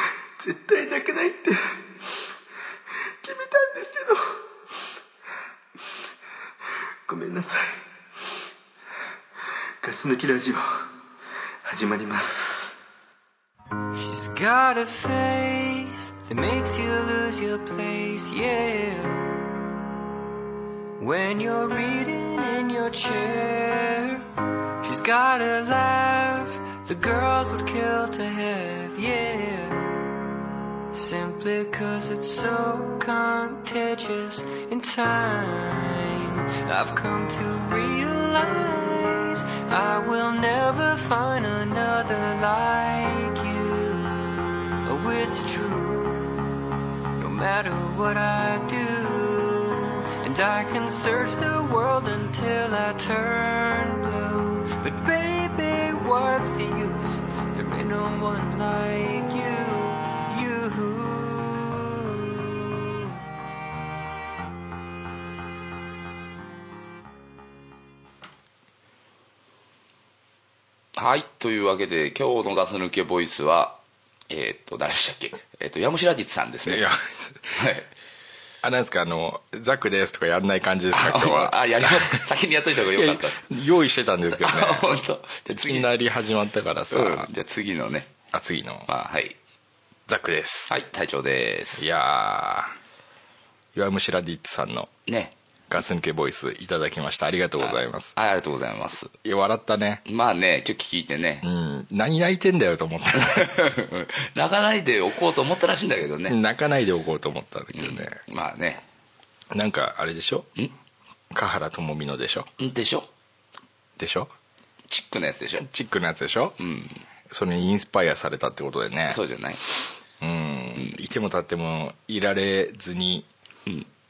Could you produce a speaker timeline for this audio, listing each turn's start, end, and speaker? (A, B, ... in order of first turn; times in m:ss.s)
0:00.4-0:04.5 A
0:07.0-0:07.9 A
0:09.8-0:10.9 A
0:11.6-0:12.7 A
0:13.9-0:19.3 B
0:21.0-0:24.2 B
0:24.8-0:30.1 B
0:30.9-0:44.3 B
0:44.8-0:46.3 B
0:47.2-1:03.1 B
1:11.0-1:13.8 C
1:14.3-1:16.9 C
1:16.6-1:17.6 D
1:17.5-1:17.9 C
1:18.6-1:22.3 D
1:20.9-1:23.5 C
1:22.9-1:24.9 D
1:24.3-1:25.9 C
1:25.5-1:27.3 D
1:26.9-1:28.1 C
1:28.3-1:28.9 D
1:28.9-1:29.4 C
1:30.1-1:30.7 D
1:30.7-1:31.8 C
1:31.8-1:32.8 D
1:33.7-1:34.9 D
1:35.1-1:35.3 C
1:35.7-1:38.1 D
1:37.6-1:39.1 C
1:39.2-1:40.0 D
1:40.0-1:41.4 C
1:41.4-1:43.5 D
1:43.2-1:46.4 C
1:46.3-1:48.2 D
1:47.7-1:48.8 C
1:49.5-1:50.5 D
1:51.3-1:52.5 D
1:52.6-1:53.1 C
1:54.0-1:54.3 D
1:54.9-1:55.7 C
1:55.6-1:56.6 D
1:56.6-1:57.0 C
1:57.3-1:59.2 D
1:59.1-1:59.6 C
2:00.2-2:03.3 D